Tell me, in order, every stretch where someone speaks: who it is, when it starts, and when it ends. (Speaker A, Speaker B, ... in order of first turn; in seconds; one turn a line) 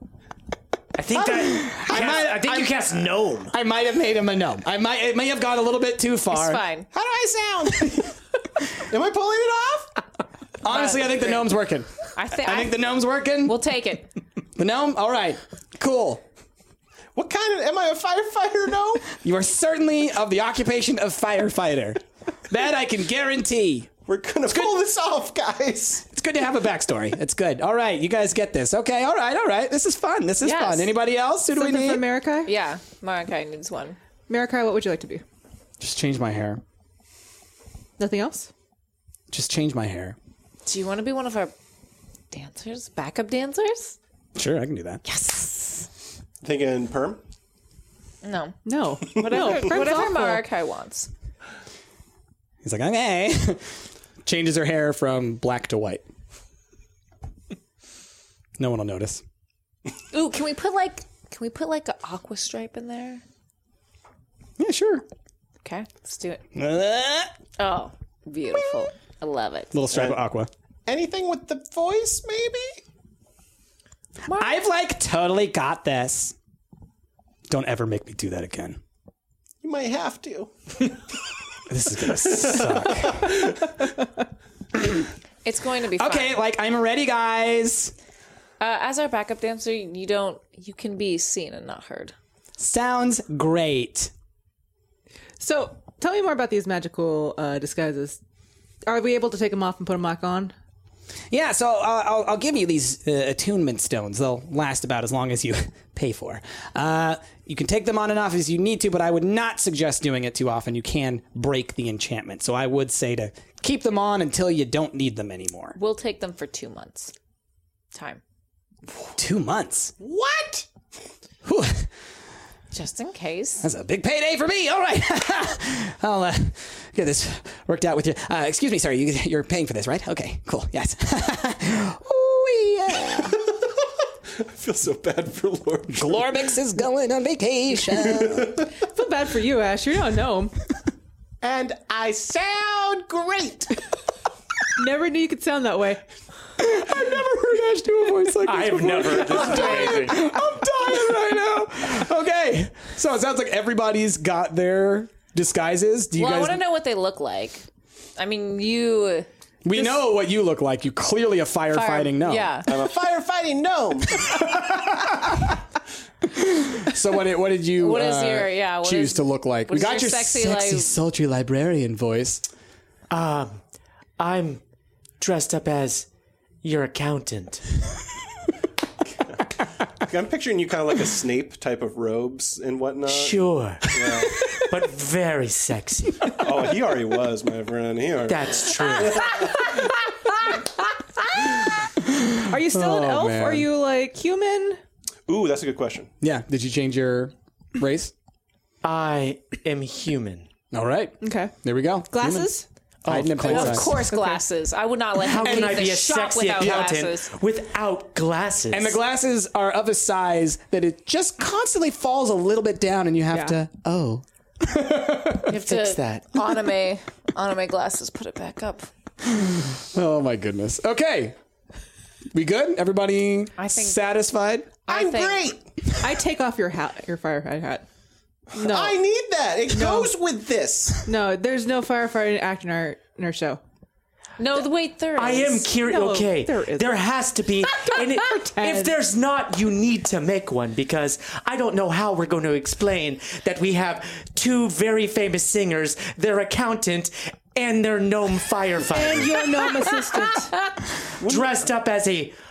Speaker A: 0.9-3.5
Speaker B: 1.4-2.9
Speaker B: 3.5-6.6
Speaker C: 6.3-6.9
Speaker D: 6.9-8.1
Speaker D: 8.8-9.9
Speaker B: 10.6-13.6
Speaker C: 10.7-11.5
Speaker C: 12.2-12.8
Speaker C: 13.4-14.1
Speaker B: 14.6-16.2
Speaker D: 17.1-19.1
Speaker B: 19.1-23.9
Speaker D: 24.1-26.0
Speaker B: 24.5-24.8
Speaker B: 26.1-32.1
Speaker C: 30.4-30.9
Speaker E: 31.5-32.5
Speaker C: 32.5-34.0
Speaker E: 34.3-35.2
Speaker B: 35.8-36.6
Speaker E: 38.0-38.5
Speaker B: 39.3-40.2
Speaker C: 40.7-41.5
Speaker C: 42.3-44.0
Speaker B: 44.4-45.0
Speaker C: 45.0-45.9
Speaker D: 46.4-47.2
Speaker C: 48.2-51.1
Speaker E: 48.6-50.4
Speaker B: 52.6-53.7
Speaker B: 54.2-56.0
Speaker B: 58.6-59.2
Speaker C: 60.1-63.2
Speaker B: 64.6-65.0
Speaker C: 65.6-66.4
Speaker B: 66.5-67.3
Speaker C: 67.6-69.8
Speaker B: 69.7-70.5
Speaker D: 69.9-70.2
Speaker D: 70.9-72.8
Speaker C: 74.3-74.6
Speaker B: 74.3-76.3
Speaker B: 77.5-78.8
Speaker D: 79.6-80.5
Speaker B: 81.7-83.4
Speaker D: 82.3-83.3
Speaker C: 85.5-86.4
Speaker B: 86.0-87.9
Speaker C: 88.6-92.1
Speaker B: 92.6-94.1
Speaker E: 95.4-98.2
Speaker E: 98.9-100.5
Speaker B: 101.3-115.8
Speaker C: 115.8-117.1
Speaker C: 117.9-118.2
Speaker B: 119.2-119.9
Speaker D: 120.0-120.7
Speaker B: 121.5-121.9
Speaker C: 122.7-123.7
Speaker B: 123.6-133.4
Speaker D: 134.4-136.4
Speaker B: 135.9-138.6
Speaker D: 137.9-138.7
Speaker E: 138.8-140.6
Speaker D: 141.4-143.8
Speaker E: 144.8-146.0
Speaker B: 146.6-156.6
Speaker A: 148.4-150.3
Speaker C: 156.2-157.7
Speaker C: 158.2-159.3
Speaker B: 159.6-162.6
Speaker C: 161.7-162.7
Speaker D: 162.7-164.4
Speaker B: 164.2-165.6
Speaker B: 166.3-172.4
Speaker C: 167.8-170.9
Speaker A: 173.1-173.6
Speaker A: 174.2-174.6
Speaker A: 175.2-176.1
Speaker A: 176.6-177.7
Speaker D: 180.0-184.5
Speaker A: 183.1-183.9
Speaker A: 184.5-186.3
Speaker D: 186.3-189.7
Speaker A: 188.3-189.6
Speaker B: 192.1-193.7
Speaker E: 192.5-194.8
Speaker D: 195.3-196.1
Speaker B: 196.2-198.1
Speaker A: 198.8-200.5
Speaker B: 200.7-202.5
Speaker E: 201.2-201.5
Speaker E: 202.1-202.7
Speaker A: 203.0-203.9
Speaker B: 203.1-203.9
Speaker C: 203.4-207.3
Speaker E: 203.9-204.4
Speaker A: 205.2-209.0
Speaker B: 205.4-205.9
Speaker B: 206.6-207.0
Speaker B: 208.7-215.5
Speaker E: 213.3-213.6
Speaker C: 215.5-218.9
Speaker A: 215.5-216.3
Speaker B: 219.4-221.4
Speaker B: 222.3-224.7
Speaker C: 223.6-224.0
Speaker C: 224.9-225.5
Speaker D: 224.9-225.7
Speaker E: 226.0-227.8
Speaker E: 228.5-229.0
Speaker D: 228.5-231.1
Speaker E: 229.7-230.1
Speaker E: 231.1-233.6
Speaker C: 234.4-235.7
Speaker A: 235.2-249.8
Speaker E: 235.8-237.1
Speaker E: 237.7-238.9
Speaker E: 248.9-250.7
Speaker D: 251.2-251.5
Speaker A: 251.2-252.3